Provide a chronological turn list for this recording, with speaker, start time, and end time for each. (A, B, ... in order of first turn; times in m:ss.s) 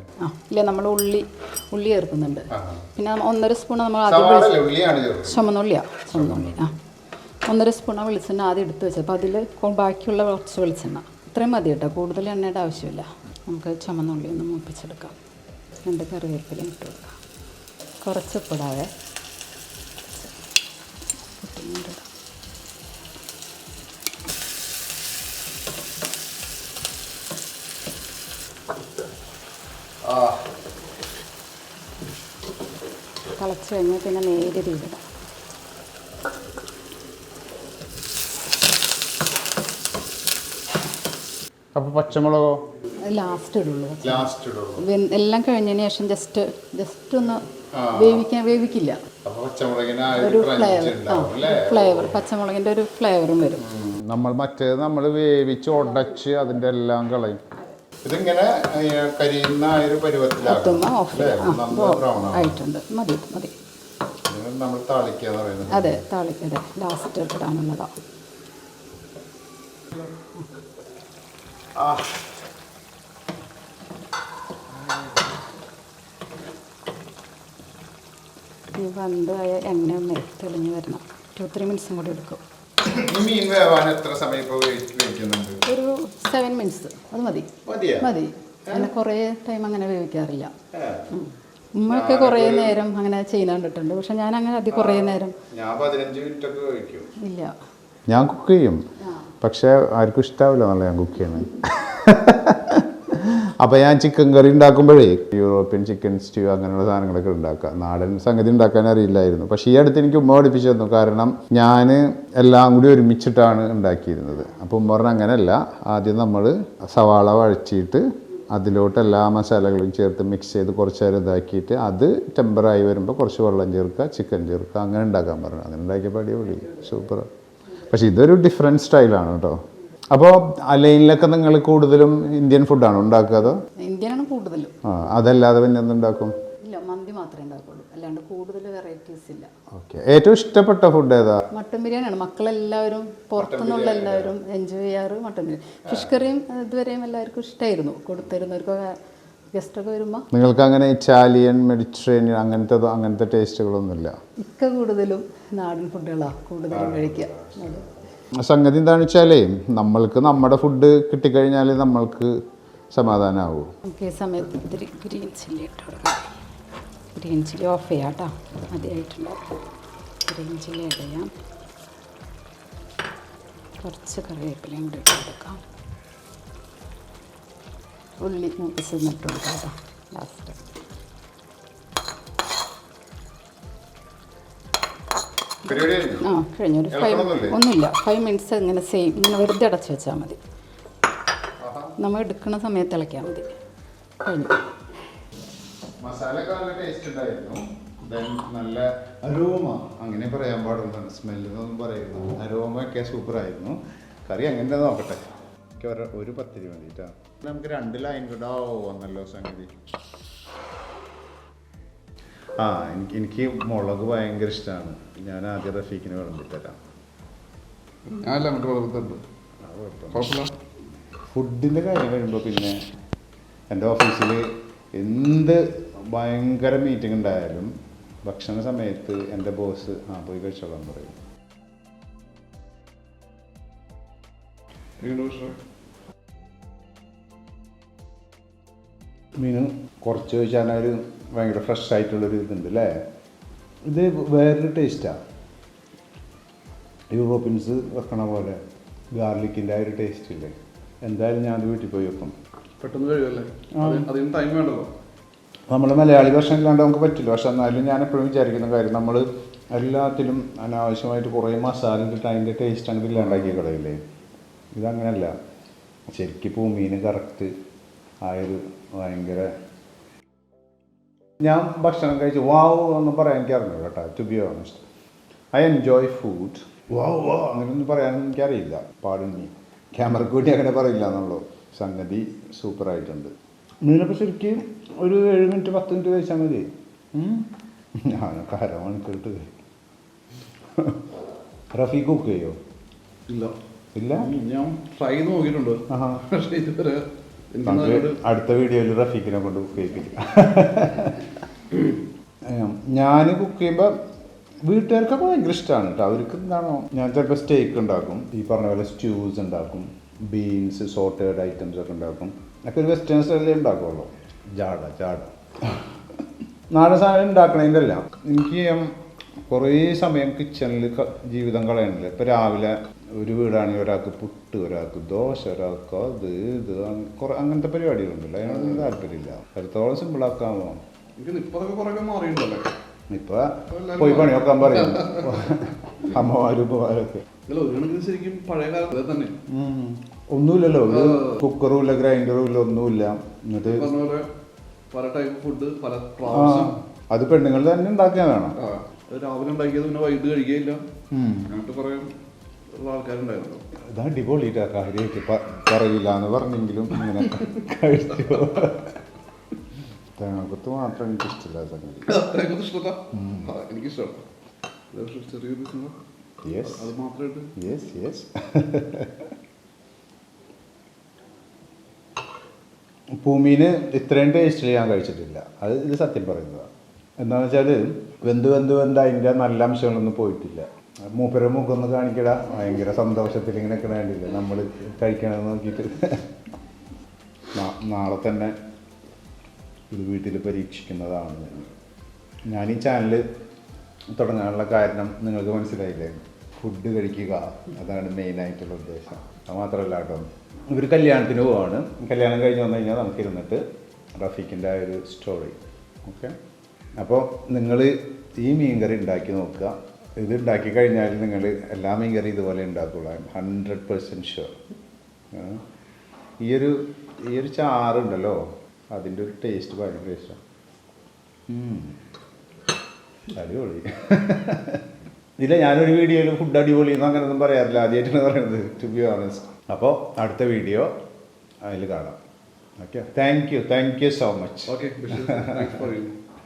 0:00.2-0:04.6 A
0:02.5-0:02.8 B
0:04.1-0:05.4 B
0:05.3-0:06.7 A
0:06.1-0:06.6 B
0:07.5-0:15.2 A
0:15.8-0:17.2 A
0:18.0-0:18.9 A
0:20.1-0:20.4 A
0:21.3-0:22.1 A
0:30.1-0:30.4 B
0:33.4-0:35.0 A
0:41.8-0:42.6 B
0:43.0-0:49.0 A
0:44.0-0:44.9 B
0:47.7-0:48.2 B
0:49.2-0:52.2 B
0:50.2-0:53.6 A
0:53.6-0:57.4 B
0:58.0-1:02.6 B
1:00.4-1:03.5 A
1:04.3-1:06.0 B
1:05.7-1:07.9 A
1:11.8-1:12.1 B
1:18.7-1:22.4 A
1:22.8-1:25.6 B
1:25.7-1:30.5 A
1:27.7-1:28.1 B
1:28.7-1:28.9 B
1:30.7-1:31.1 B
1:31.1-1:35.4 A
1:31.9-1:32.8 B
1:34.7-1:37.1 B
1:37.2-1:37.6 A
1:38.1-1:38.8 B
1:39.0-1:39.3 A
1:39.4-2:07.3 B
2:07.8-2:09.6 B
2:10.1-2:13.6 B
2:13.7-2:14.8 A
2:14.8-2:16.4 B
2:16.6-2:19.5 A
2:19.7-2:21.4 B
2:21.5-2:29.0 A
2:23.4-2:24.4 B
2:25.9-2:26.2 B
2:29.5-2:30.2 A
2:30.3-2:34.2 B
2:34.4-2:37.9 A
2:36.7-2:37.8 B
2:38.4-2:42.3 B
2:42.9-2:43.7 B
2:43.8-2:46.3 A
2:47.1-2:49.4 A
2:50.3-2:51.3 A
2:53.8-2:55.6 A
2:58.2-3:00.7 A
3:05.7-3:06.2 B
3:05.7-3:10.4 A
3:06.9-3:07.6 B
3:11.6-3:11.9 B
3:12.0-3:13.5 A
3:14.2-3:14.6 A
3:16.0-3:29.8 B
3:32.6-3:36.8 B
3:38.1-3:39.2 C
3:39.6-3:40.3 B
3:40.1-3:40.5 C
3:41.3-3:42.8 B
3:43.7-3:47.7 B
3:48.2-3:51.2 B
3:55.0-3:55.6 C
3:59.4-4:03.0 B
4:03.8-4:05.2 B
4:07.1-4:08.6 B
4:09.1-4:12.4 B
4:12.8-4:14.9 C
4:13.8-4:14.1 B
4:15.7-4:24.0 B
4:24.7-4:25.3 B
4:26.1-4:27.5 B
4:28.2-4:29.5 B
4:31.4-4:34.8 B
4:35.5-4:43.3 B
4:43.8-4:47.5 B
4:48.0-4:49.5 B
4:50.7-4:51.0 B
4:51.7-4:52.6 B
4:53.3-4:53.6 C
4:54.0-4:54.3 B
4:54.2-4:58.2 C
4:55.9-4:56.3 B
4:57.7-5:01.3 B
5:02.5-5:03.9 B
5:04.6-5:15.9 B
5:16.7-5:18.9 B
5:19.5-5:30.8 B
5:28.6-5:28.9 C
5:31.2-5:32.7 C
5:33.1-5:37.2 B
5:33.7-5:35.4 C
5:37.5-5:39.4 C
5:39.5-5:43.9 B
5:40.9-5:41.4 C
5:43.6-5:44.3 C
5:44.9-5:46.8 C
5:46.3-5:48.6 B
5:48.6-5:50.8 C
5:51.1-5:51.5 B
5:51.4-5:52.1 C
5:52.7-5:53.6 C
5:53.9-5:59.0 B
6:00.2-6:02.1 B
6:02.1-6:04.3 C
6:03.1-6:03.5 B
6:04.9-6:06.0 C
6:06.4-6:06.9 B
6:06.7-6:07.6 C
6:07.6-6:09.3 B
6:13.2-6:26.3 B
6:27.5-6:28.6 B
6:29.9-6:31.7 B
6:32.5-6:33.2 B
6:34.2-6:43.6 B
6:44.2-6:46.4 B
6:47.0-6:54.6 B
6:55.3-6:55.6 B
6:56.4-6:58.4 B
6:58.9-7:00.4 B
7:01.5-7:02.0 B
7:03.3-7:04.8 B
7:05.4-7:10.9 B
7:11.6-7:12.2 B
7:12.8-7:15.8 B
7:14.7-7:16.2 C